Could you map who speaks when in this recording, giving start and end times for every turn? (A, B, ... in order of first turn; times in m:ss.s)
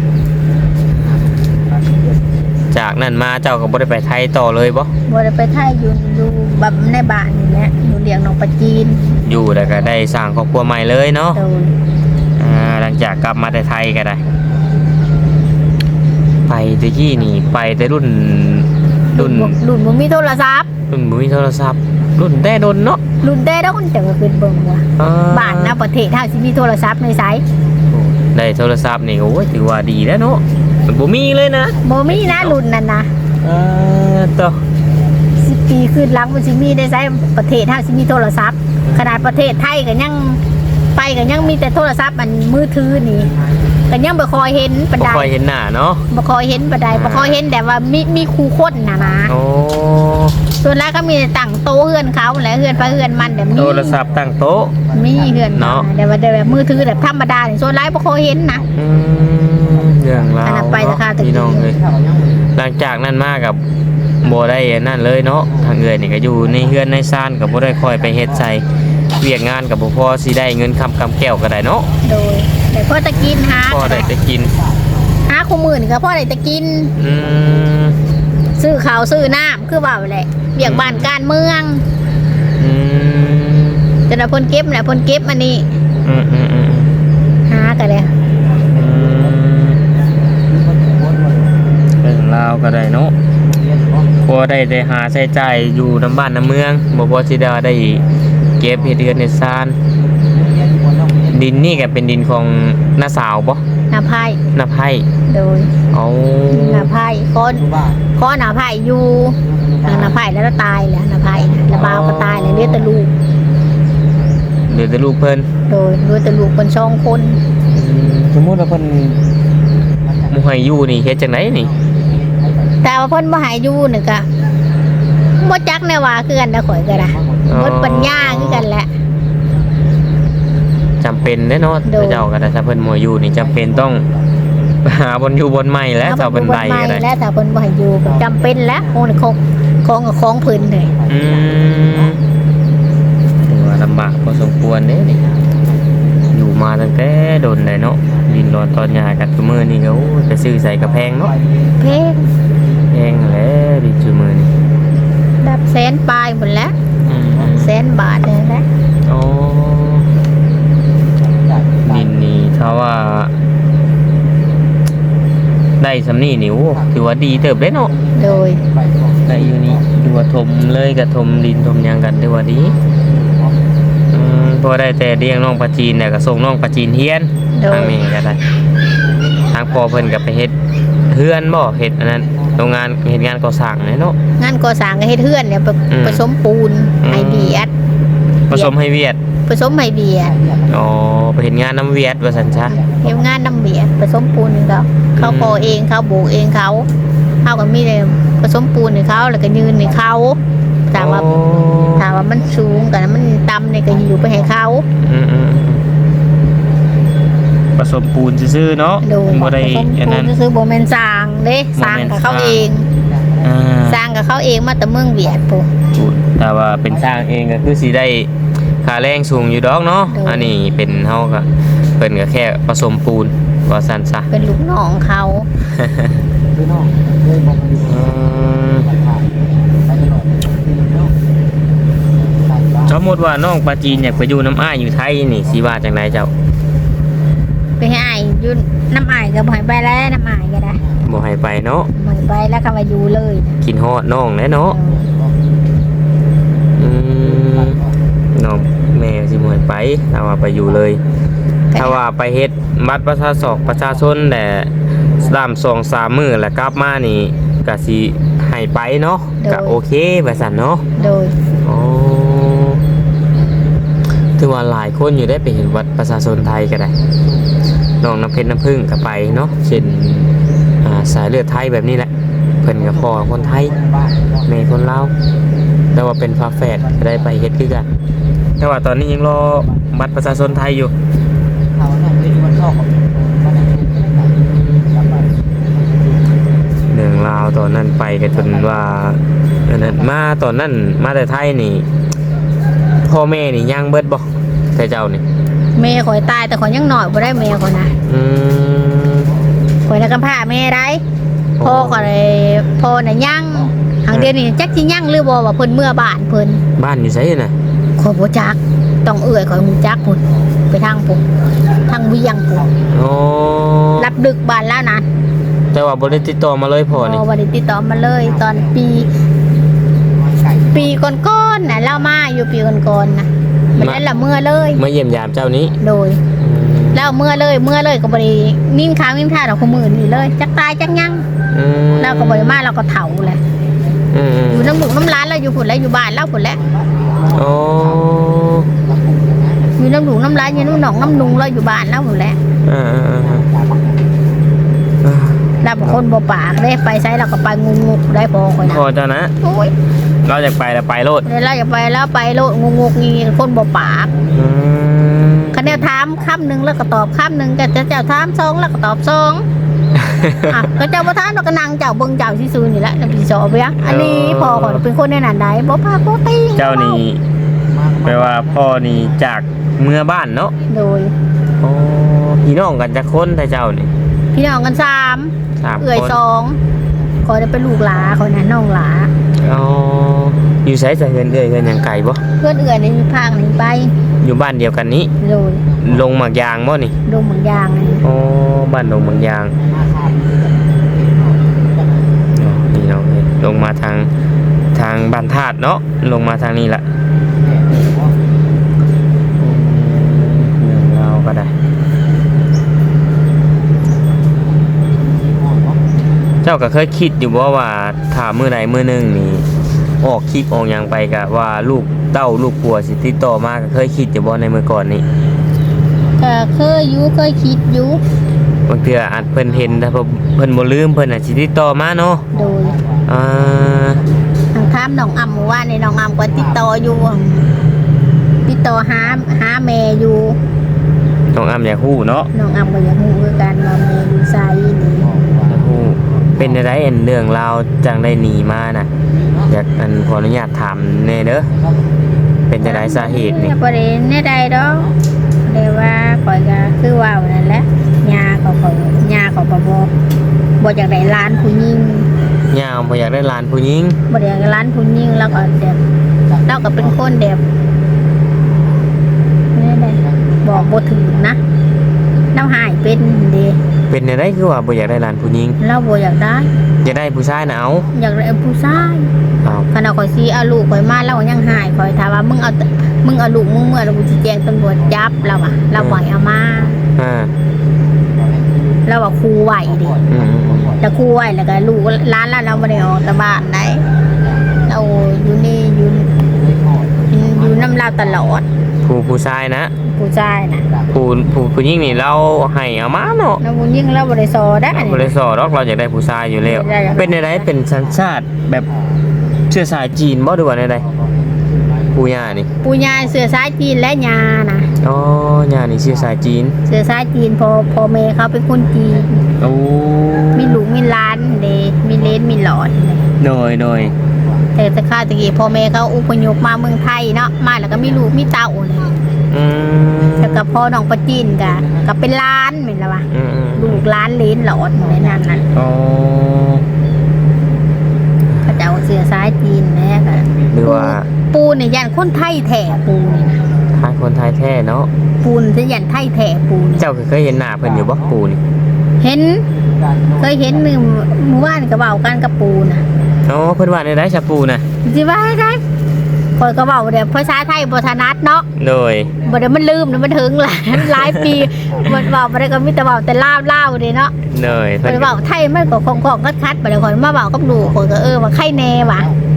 0:00.9-0:02.5 A
0:02.7-0:04.9 B
0:05.1-0:09.1 C
0:09.2-0:11.4 B
0:11.3-0:11.7 C
0:12.4-0:14.2 B
0:16.5-0:19.6 B
0:19.1-0:20.7 C
0:20.9-0:23.0 B
0:23.2-0:27.4 C
0:25.0-0:25.8 B
0:27.9-0:32.6 B
0:31.8-0:33.1 C
0:33.4-0:34.6 B
0:35.4-0:40.4 C
0:38.8-0:39.6 B
0:41.0-0:43.3 C
0:43.0-0:43.9 A
0:43.9-0:45.3 C
0:45.0-0:46.0 B
0:46.1-0:49.3 C
0:46.9-0:47.4 B
0:49.3-0:50.4 B
0:50.6-0:54.0 C
0:52.6-0:55.7 A
0:53.5-0:54.7 B
0:54.9-0:58.6 C
0:55.5-0:55.9 B
0:56.2-0:57.2 A
0:58.5-1:00.5 A
0:58.7-1:01.7 B
1:00.4-1:01.7 C
1:01.5-1:02.6 A
1:02.5-1:03.6 B
1:04.2-1:11.9 B
1:05.4-1:05.8 A
1:06.4-1:06.8 A
1:07.8-1:08.5 A
1:12.0-1:14.1 C
1:13.2-1:14.5 B
1:13.3-1:15.2 A
1:15.3-1:16.9 C
1:17.0-1:17.9 B
1:17.3-1:17.7 A
1:18.6-1:21.8 C
1:20.6-1:21.1 B
1:22.6-1:23.8 B
1:24.1-1:25.7 C
1:25.6-1:26.3 A
1:26.0-1:26.9 B
1:27.5-1:28.1 C
1:28.5-1:31.8 A
1:28.7-1:29.8 B
1:32.0-1:33.1 B
1:33.4-1:34.3 A
1:34.2-1:38.0 B
1:38.6-1:39.3 A
1:38.6-1:39.8 B
1:40.1-1:41.9 A
1:41.3-1:43.6 B
1:43.9-1:44.4 C
1:44.5-1:45.0 B
1:45.3-1:45.7 C
1:45.9-1:46.9 B
1:46.5-1:47.6 C
1:47.5-1:48.1 A
1:48.2-1:53.1 C
1:49.4-1:50.2 A
1:51.3-1:52.2 A
1:51.7-1:52.9 B
1:54.7-1:55.5 B
1:55.7-1:57.4 C
1:57.7-1:59.2 B
2:00.0-2:00.8 A
2:00.3-2:01.7 B
2:01.5-2:02.8 A
2:02.8-2:04.2 C
2:05.4-2:08.9 C
2:06.7-2:07.8 A
2:07.5-2:08.7 B
2:11.0-2:14.0 B
2:11.8-2:12.3 C
2:13.3-2:14.3 A
2:14.8-2:17.0 B
2:16.0-2:20.9 C
2:18.0-2:19.2 A
2:20.4-2:22.2 A
2:21.1-2:22.2 B
2:23.4-2:25.2 B
2:25.1-2:26.4 A
2:26.3-2:31.3 B
2:28.0-2:28.4 A
2:30.7-2:33.5 A
2:31.8-2:32.2 C
2:32.9-2:34.5 B
2:35.4-2:36.7 C
2:37.0-2:37.7 B
2:37.4-2:38.6 C
2:39.1-2:40.1 B
2:41.0-2:42.2 A
2:41.8-2:43.3 B
2:45.8-2:47.9 B
2:46.6-2:49.9 A
2:48.2-2:48.6 C
2:49.3-2:52.7 B
2:52.6-2:53.7 A
2:54.1-2:58.4 B
2:57.6-2:58.0 C
2:59.0-3:00.3 A
2:59.5-3:00.5 B
3:01.1-3:04.2 B
3:02.1-3:02.8 A
3:04.4-3:07.7 C
3:05.9-3:06.2 B
3:07.0-3:07.7 B
3:08.5-3:09.2 B
3:09.5-3:10.3 C
3:10.2-3:11.0 A
3:10.7-3:12.8 B
3:12.1-3:13.5 A
3:13.0-3:16.9 C
3:15.2-3:15.8 B
3:17.4-3:20.4 C
3:19.1-3:20.3 A
3:20.9-3:21.3 C
3:20.9-3:22.0 B
3:21.4-3:23.2 A
3:21.9-3:24.8 C
3:23.9-3:24.7 A
3:24.9-3:25.8 B
3:27.8-3:30.3 B
3:29.0-3:32.8 C
3:31.8-3:32.7 B
3:32.7-3:33.7 A
3:33.4-3:34.0 B
3:33.9-3:35.7 C
3:35.9-3:38.3 B
3:36.8-3:37.3 A
3:38.8-3:41.5 B
3:40.1-3:40.5 C
3:42.0-3:44.3 B
3:44.3-3:45.5 C
3:45.6-3:46.2 B
3:46.5-3:51.2 A
3:47.8-3:48.8 B
3:52.1-3:53.0 A
3:52.9-3:56.3 B
3:53.9-3:54.3 A
3:55.5-3:56.1 A
3:57.8-4:00.8 C
4:00.8-4:01.2 A
4:01.0-4:01.9 B
4:01.9-4:03.6 C
4:03.6-4:04.8 B
4:04.6-4:05.0 C
4:04.8-4:05.8 A
4:06.8-4:07.8 B
4:07.2-4:08.0 A
4:08.3-4:11.0 B
4:10.7-4:11.0 A
4:11.7-4:12.0 C
4:11.7-4:20.8 B
4:13.4-4:14.2 A
4:15.0-4:15.4 A
4:19.4-4:19.8 C
4:20.7-4:21.5 A
4:21.0-4:21.3 C
4:21.6-4:22.8 B
4:24.4-4:26.9 B
4:27.0-4:27.6 A
4:28.0-4:32.1 B
4:32.6-4:33.7 B
4:32.8-4:34.5 A
4:34.5-4:35.1 B
4:35.9-4:37.8 B
4:36.6-4:37.4 A
4:38.6-4:40.9 B
4:39.6-4:40.6 A
4:41.7-4:46.6 A
4:44.3-4:44.9 B
4:46.9-4:51.9 B
4:48.3-4:49.2 A
4:49.7-4:50.1 A
4:53.0-4:55.2 B
4:55.8-4:57.9 C
4:58.0-4:59.3 B
4:59.9-5:01.0 C
5:01.6-5:02.1 B
5:01.6-5:06.6 C
5:03.0-5:03.7 A
5:06.8-5:07.5 B
5:08.0-5:11.2 C
5:11.6-5:11.9 A
5:11.9-5:12.6 C
5:12.5-5:13.1 A
5:12.9-5:14.1 B
5:14.0-5:15.0 C
5:15.7-5:17.2 B
5:16.9-5:19.1 C
5:17.9-5:19.2 A
5:20.1-5:21.8 A
5:20.7-5:24.8 C
5:23.7-5:24.2 A
5:23.8-5:24.0 B
5:24.7-5:25.8 B
5:25.8-5:26.2 C
5:26.4-5:27.1 B
5:26.9-5:31.2 C
5:29.5-5:30.4 A
5:31.5-5:32.6 B
5:32.0-5:33.4 C
5:33.3-5:34.0 A
5:34.1-5:34.8 B
5:34.5-5:36.6 C
5:36.5-5:38.1 A
5:37.3-5:38.7 B
5:38.7-5:41.6 A
5:39.8-5:42.4 C
5:42.6-5:43.4 B
5:43.1-5:44.3 A
5:45.0-5:46.0 B
5:45.6-5:48.8 C
5:48.6-5:49.4 B
5:49.4-5:49.7 C
5:50.2-5:51.2 B
5:51.2-5:54.1 C
5:53.8-5:54.6 A
5:54.3-5:55.9 B
5:55.5-5:59.4 C
5:55.9-5:56.5 A
6:00.0-6:00.7 A
6:00.0-6:00.6 B
6:00.5-6:07.0 C
6:03.8-6:04.8 B
6:06.5-6:07.2 B
6:07.6-6:09.3 A
6:08.0-6:10.5 B
6:10.7-6:11.1 C
6:11.6-6:13.9 B
6:14.3-6:16.6 C
6:15.6-6:16.2 B
6:17.2-6:19.1 C
6:17.4-6:18.5 A
6:19.4-6:22.2 B
6:22.4-6:23.9 C
6:24.2-6:25.1 B
6:25.2-6:25.6 C
6:25.6-6:26.2 A
6:25.8-6:26.9 B
6:27.0-6:28.0 C
6:27.1-6:32.2 A
6:28.0-6:29.5 B
6:32.3-6:34.1 B
6:34.7-6:36.8 B
6:37.3-6:38.2 A
6:39.4-6:41.5 B
6:44.9-6:45.9 A
6:46.4-6:49.4 B
6:50.0-6:55.0 B
6:56.2-6:58.0 C
6:58.7-7:02.3 B
6:59.2-6:59.9 A
7:02.3-7:04.8 A
7:02.3-7:02.8 C
7:03.1-7:04.0 B
7:04.5-7:07.4 C
7:06.3-7:06.8 A
7:08.4-7:10.4 C
7:11.3-7:12.3 B
7:12.3-7:15.1 C
7:15.0-7:15.7 A
7:15.5-7:18.9 B
7:19.0-7:19.6 A
7:19.5-7:21.5 B
7:21.5-7:25.0 A
7:22.5-7:23.5 B
7:22.6-7:24.9 C
7:25.4-7:29.9 C
7:30.6-7:32.1 C
7:32.5-7:34.0 B
7:34.1-7:35.8 C
7:35.2-7:35.6 A
7:36.2-7:37.1 A
7:36.5-7:37.4 C
7:39.5-7:41.4 C
7:39.9-7:41.4 A
7:42.3-7:43.6 C
7:43.9-7:45.6 B
7:45.6-7:46.5 C
7:46.8-7:47.9 B
7:46.8-7:47.9 A
7:47.9-7:49.1 C
7:49.7-7:56.8 C
7:51.1-7:51.8 A
7:54.8-7:56.8 A
7:55.8-7:56.0 B
7:57.0-7:57.3 B
7:58.0-8:01.2 A
7:58.9-8:00.0 C
8:00.1-8:00.7 B
8:00.8-8:03.8 C
8:02.4-8:04.7 A
8:04.7-8:06.1 C
8:06.1-8:08.4 A
8:07.1-8:08.4 C
8:08.8-8:09.7 B
8:09.8-8:10.7 C
8:10.7-8:11.1 A
8:10.9-8:13.4 B
8:13.4-8:15.1 C
8:14.7-8:18.7 B
8:16.4-8:17.4 C
8:16.4-8:19.1 A
8:19.5-8:20.8 B
8:20.8-8:23.3 A
8:21.9-8:22.5 B
8:22.6-8:24.7 C
8:24.8-8:26.5 B
8:25.9-8:26.2 A
8:26.7-8:29.2 C
8:27.8-8:29.5 A
8:29.4-8:30.6 B
8:30.4-8:33.0 C
8:31.8-8:34.5 A
8:33.2-8:33.9 B
8:34.6-8:38.9 C
8:37.6-8:38.1 A
8:39.3-8:40.4 B
8:40.2-8:45.4 C
8:41.1-8:41.9 A
8:43.1-8:43.8 B
8:44.8-8:45.5 A
8:45.5-8:46.6 B
8:48.4-8:53.4 C
8:50.1-8:50.9 A
8:50.5-8:51.1 B
8:51.5-8:53.4 A
8:53.7-8:54.9 B
8:55.2-8:56.9 C
8:56.8-8:58.4 B
8:57.6-8:58.2 A
8:59.0-8:59.4 C
8:59.5-9:00.7 A
9:00.2-9:02.8 C
9:03.3-9:04.6 B
9:04.8-9:05.6 C
9:06.4-9:08.5 C
9:08.6-9:09.1 B
9:09.0-9:10.6 A
9:09.2-9:14.1 C
9:10.7-9:12.0 B
9:11.5-9:12.1 A
9:14.3-9:15.1 B
9:14.4-9:16.3 A
9:14.8-9:19.1 C
9:17.3-9:19.2 A